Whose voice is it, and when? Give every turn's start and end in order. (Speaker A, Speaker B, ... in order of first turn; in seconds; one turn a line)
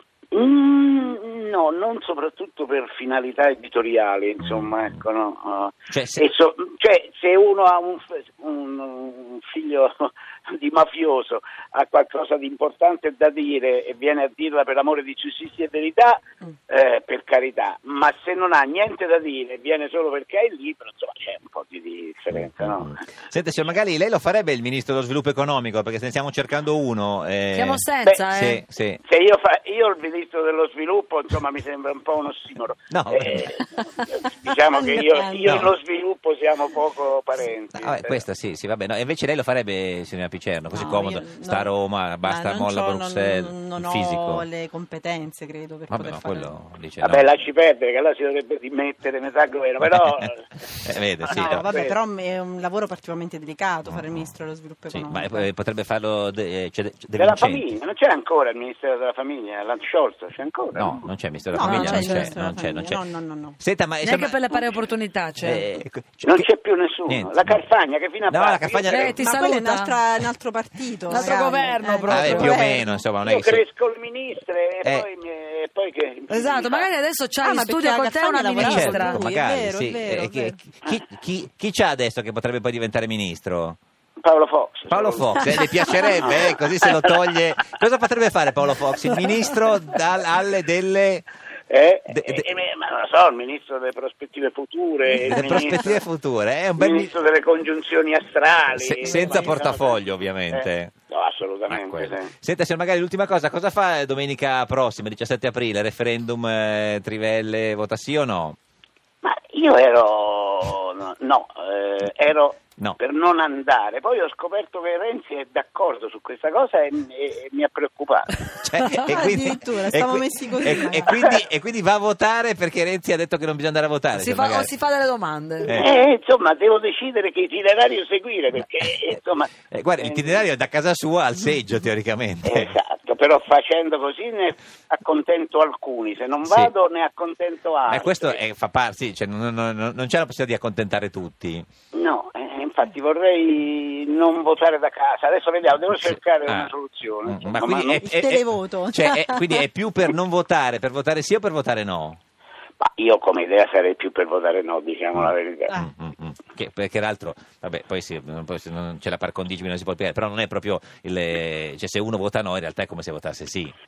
Speaker A: 0.3-22.9
Speaker B: 4.4-4.9
Speaker B: 5.9-6.2
Speaker B: 22.3-29.0
Speaker C: 27.5-28.6
Speaker A: 29.0-38.2
Speaker B: 32.9-33.5
Speaker D: 34.7-35.7
Speaker B: 37.8-44.5
Speaker D: 40.7-46.5
Speaker B: 45.9-47.3
Speaker A: 47.0-50.5
Speaker B: 49.8-51.6
Speaker A: 51.2-51.9
Speaker D: 51.3-55.5
Speaker B: 53.9-54.3
Speaker B: 54.9-57.6
Speaker A: 57.2-61.0
Speaker B: 60.7-63.0
Speaker D: 61.5-63.6
Speaker C: 61.8-62.2
Speaker B: 63.6-64.7
Speaker C: 64.0-65.7
Speaker B: 65.4-66.5
Speaker A: 66.2-69.2
Speaker B: 67.1-67.6
Speaker B: 68.3-69.3
Speaker C: 68.9-70.0
Speaker D: 69.2-73.0
Speaker C: 71.1-72.6
Speaker B: 72.1-73.6
Speaker A: 73.2-76.9
Speaker C: 76.3-79.2
Speaker D: 77.4-80.6
Speaker B: 78.6-83.8
Speaker A: 84.2-87.2
Speaker B: 84.9-91.3
Speaker A: 91.7-96.0
Speaker B: 92.1-92.5
Speaker B: 95.2-97.1
Speaker A: 96.8-102.3
Speaker B: 98.7-100.9
Speaker D: 99.1-99.5
Speaker B: 101.7-108.6
Speaker A: 109.2-118.4
Speaker B: 118.7-124.7
Speaker D: 118.8-121.1
Speaker A: 121.1-121.4
Speaker C: 124.2-125.8
Speaker B: 125.6-125.9
Speaker A: 125.7-130.5
Speaker B: 129.7-132.7
Speaker A: 132.4-138.4
Speaker B: 136.4-136.7
Speaker B: 137.9-141.7
Speaker A: 141.9-148.1
Speaker B: 146.0-146.7
Speaker B: 147.2-152.2
Speaker D: 148.0-149.7
Speaker A: 152.8-155.7
Speaker B: 155.2-163.7